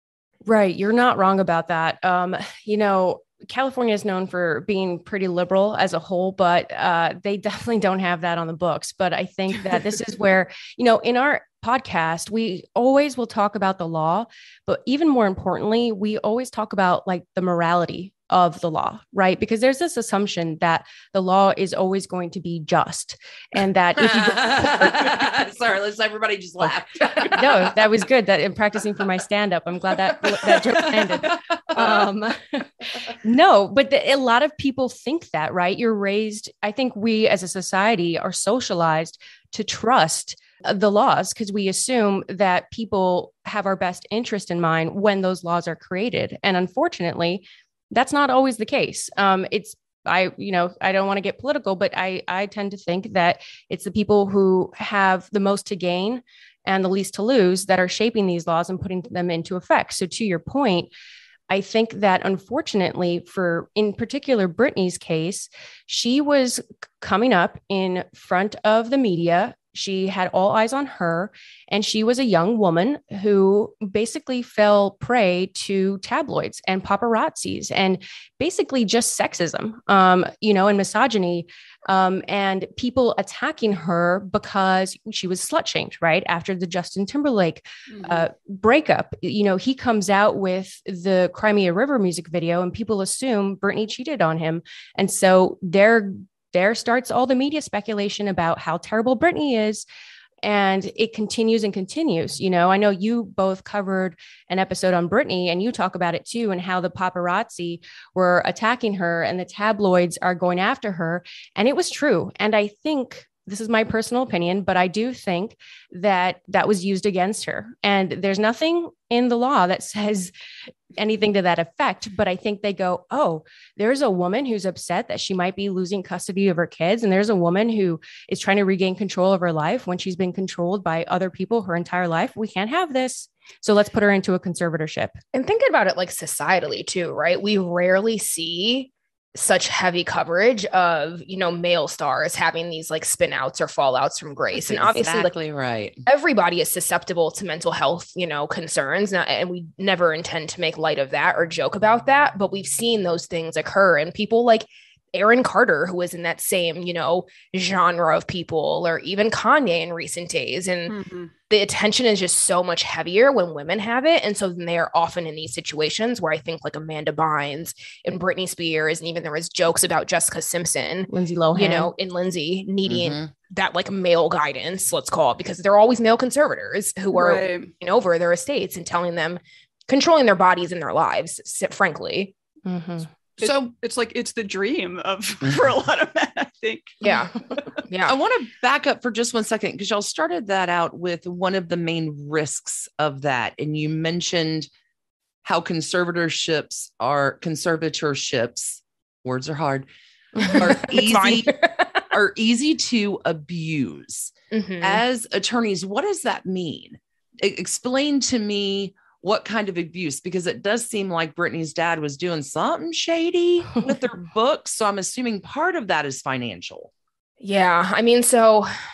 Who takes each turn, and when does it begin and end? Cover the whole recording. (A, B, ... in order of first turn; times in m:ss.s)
0:00.5-0:25.0 A
0:24.0-0:27.8 B
0:27.2-1:00.9 A
0:30.1-0:32.1 B
1:01.5-1:39.8 A
1:27.9-1:28.3 C
1:40.4-2:00.3 A
2:00.9-2:15.2 A
2:15.3-2:25.3 D
2:24.5-2:26.0 B
2:26.1-2:40.9 D
2:40.9-2:41.3 C
2:41.5-3:02.3 D
2:51.1-2:51.9 A
2:52.8-2:53.3 B
2:57.1-2:57.7 C
3:02.6-3:03.1 A
3:03.4-3:07.1 C
3:03.4-3:03.7 B
3:07.0-3:08.1 D
3:08.0-3:14.7 B
3:15.4-3:19.9 B
3:20.4-3:21.9 D
3:20.5-3:21.6 B
3:22.1-3:36.9 B
3:24.5-3:25.0 D
3:37.4-3:38.7 D